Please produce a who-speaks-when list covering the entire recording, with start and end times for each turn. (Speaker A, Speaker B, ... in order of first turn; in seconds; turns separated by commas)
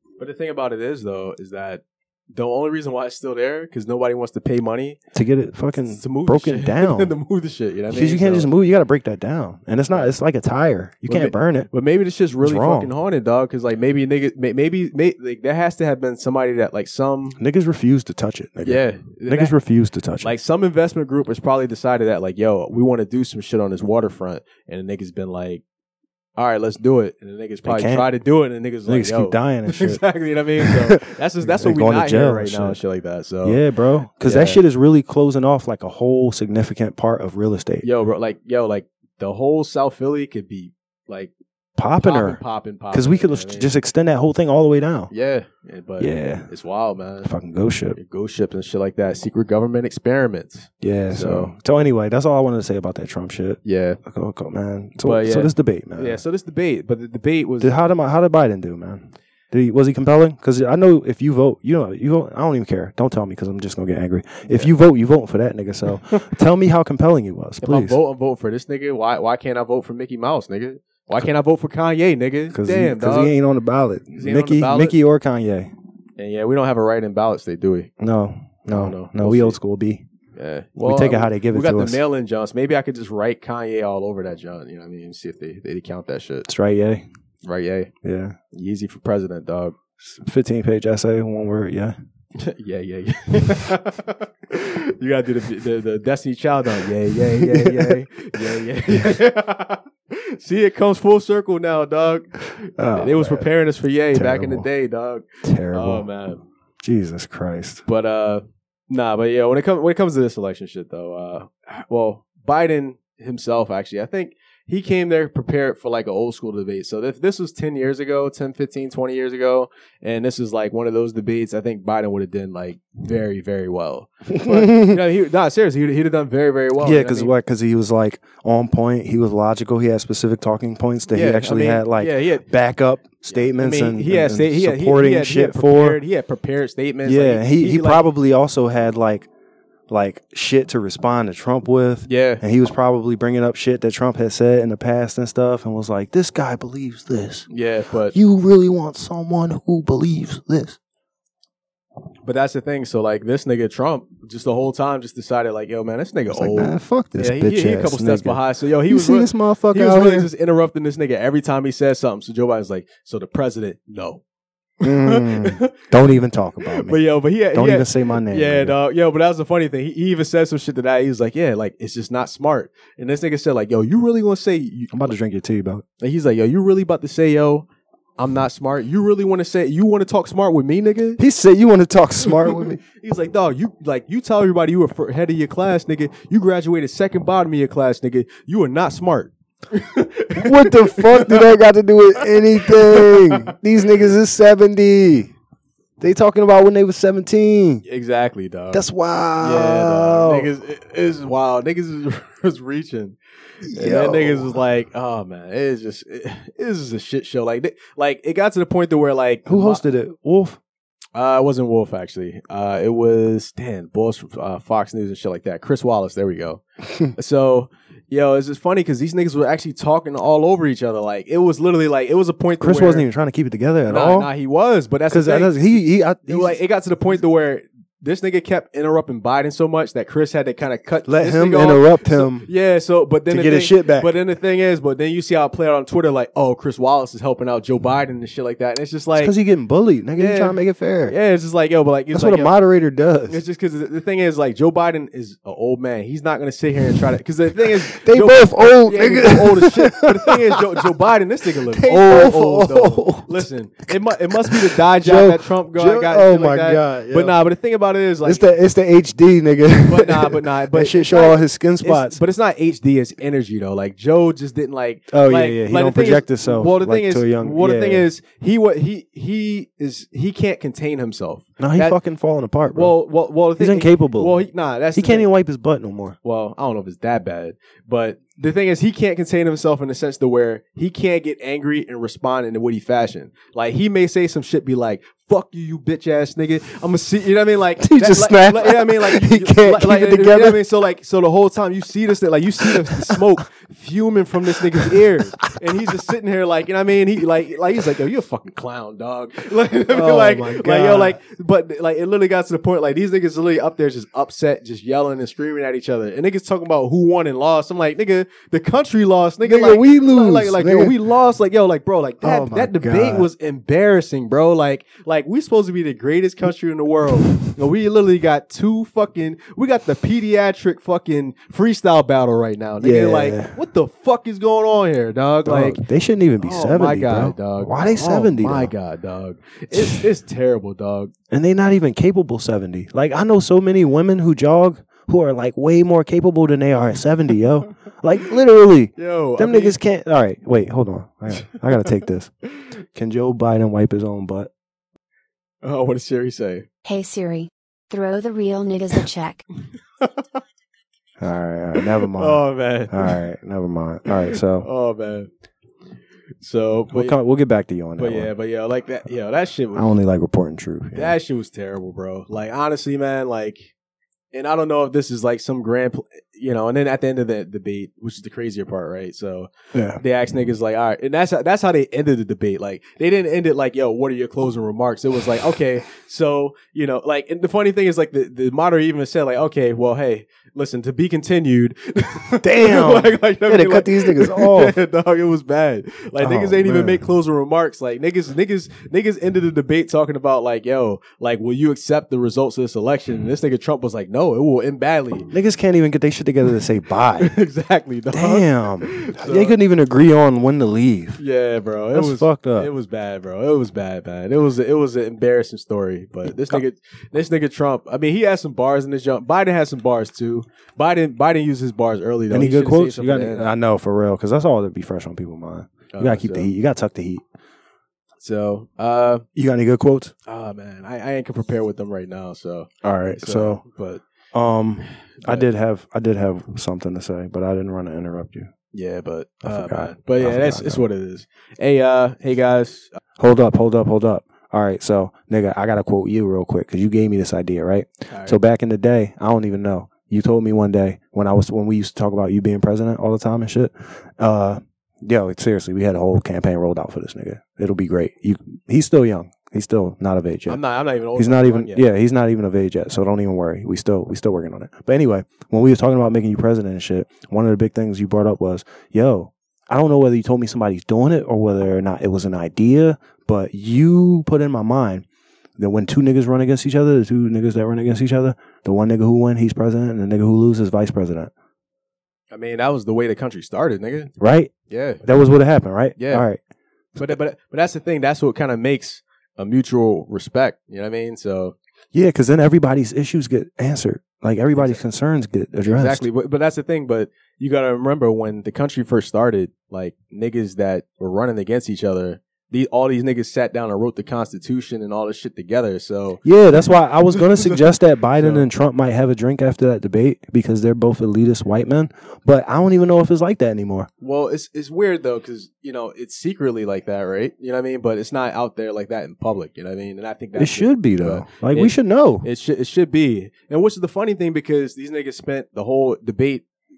Speaker A: 0.2-5.0, Speaker B: 5.1-7.1, Speaker A: 5.9-8.5, Speaker B: 7.9-11.7, Speaker A: 11.1-17.4, Speaker B: 12.4-12.9, Speaker B: 17.4-20.3, Speaker A: 18.6-19.6, Speaker A: 20.2-25.6, Speaker A: 26.4-33.6, Speaker B: 27.6-28.1, Speaker B: 28.9-30.0, Speaker B: 30.6-32.8, Speaker B: 33.4-37.9, Speaker A: 34.2-34.6, Speaker A: 37.8-41.3, Speaker B: 41.8-42.4, Speaker A: 42.0-43.7, Speaker B: 42.9-45.1, Speaker A: 45.1-47.3, Speaker B: 46.0-46.5, Speaker B: 47.2-48.0, Speaker A: 48.0-51.5, Speaker B: 50.8-56.2, Speaker A: 53.6-54.0, Speaker A: 55.0-57.8, Speaker B: 57.6-68.0, Speaker A: 64.5-64.7, Speaker A: 67.6-73.3, Speaker B: 72.5-75.7, Speaker A: 74.1-75.0, Speaker A: 76.2-77.9, Speaker B: 78.0-80.0, Speaker A: 78.7-79.6, Speaker A: 80.4-86.5, Speaker B: 80.8-82.0, Speaker B: 86.5-87.0, Speaker A: 87.5-87.9, Speaker B: 88.0-88.4, Speaker A: 88.5-89.7, Speaker B: 90.0-92.0, Speaker A: 92.4-106.4, Speaker B: 97.4-98.0, Speaker B: 102.8-103.5, Speaker B: 104.1-104.7, Speaker B: 105.4-106.1, Speaker B: 106.8-107.8, Speaker A: 107.9-127.3, Speaker B: 124.3-125.0, Speaker B: 126.8-136.0, Speaker A: 131.1-132.5, Speaker A: 133.3-138.1, Speaker B: 137.1-139.3, Speaker B: 139.9-147.5, Speaker A: 142.1-142.4, Speaker A: 147.5-148.1, Speaker B: 148.1-150.8, Speaker A: 152.2-164.2, Speaker B: 156.3-160.3, Speaker A: 164.8-165.9, Speaker B: 164.8-168.8, Speaker A: 166.7-175.1, Speaker B: 174.9-175.8, Speaker A: 176.0-181.2, Speaker B: 181.2-182.8, Speaker A: 182.2-191.6, Speaker B: 190.3-195.3, Speaker A: 192.2-193.5, Speaker B: 196.0-197.8, Speaker A: 197.8-198.8, Speaker B: 198.7-200.5, Speaker A: 199.4-209.8, Speaker B: 203.6-204.6, Speaker B: 209.5-210.6, Speaker A: 211.1-223.1, Speaker B: 222.6-224.3, Speaker A: 223.9-239.3, Speaker B: 225.1-226.6, Speaker B: 231.1-232.5, Speaker B: 233.3-234.1, Speaker B: 239.2-241.1, Speaker A: 240.2-242.5, Speaker B: 242.1-243.4, Speaker A: 243.3-258.4, Speaker B: 247.9-250.9, Speaker B: 251.7-253.4, Speaker B: 254.4-257.4, Speaker B: 258.2-262.2, Speaker A: 259.8-272.0, Speaker B: 265.1-268.1, Speaker B: 271.6-272.9, Speaker A: 272.7-275.3, Speaker B: 273.6-274.4, Speaker B: 274.9-276.2, Speaker A: 276.2-325.8, Speaker B: 287.8-290.6, Speaker B: 299.9-301.2, Speaker B: 309.4-310.9, Speaker B: 312.2-313.3, Speaker B: 322.8-323.6, Speaker B: 325.4-328.7, Speaker A: 326.4-331.1, Speaker B: 329.7-330.0, Speaker B: 331.3-342.3, Speaker A: 338.9-339.8, Speaker B: 342.9-344.5, Speaker A: 345.6-346.6, Speaker C: 346.8-349.4, Speaker B: 351.2-354.7, Speaker A: 352.0-353.2, Speaker A: 354.2-355.3, Speaker A: 356.4-357.2, Speaker B: 356.9-358.3, Speaker A: 358.0-359.9, Speaker B: 359.7-361.1, Speaker A: 360.9-363.7, Speaker A: 364.3-395.3, Speaker B: 369.7-370.0, Speaker B: 382.4-384.8, Speaker B: 386.2-387.0, Speaker B: 395.3-397.4, Speaker A: 397.2-399.6, Speaker B: 398.1-401.2, Speaker A: 401.2-413.5, Speaker B: 401.9-402.7, Speaker B: 406.3-406.6, Speaker B: 412.3-417.2, Speaker A: 415.9-416.5, Speaker A: 418.2-419.2, Speaker B: 419.3-420.1, Speaker A: 420.2-424.0, Speaker B: 422.8-423.6, Speaker B: 424.3-428.5, Speaker A: 425.2-425.5, Speaker A: 428.7-433.0, Speaker B: 429.4-430.8, Speaker B: 433.2-450.6, Speaker A: 438.1-438.4, Speaker A: 450.5-451.8, Speaker B: 451.2-465.1, Speaker B: 465.6-471.3, Speaker A: 472.3-474.1, Speaker B: 474.2-476.4, Speaker A: 474.7-475.0, Speaker A: 476.0-476.2, Speaker A: 477.0-481.6, Speaker B: 481.9-486.0, Speaker A: 484.5-484.8, Speaker A: 485.6-498.5, Speaker B: 496.2-503.9, Speaker A: 504.0-516.5, Speaker B: 510.4-512.3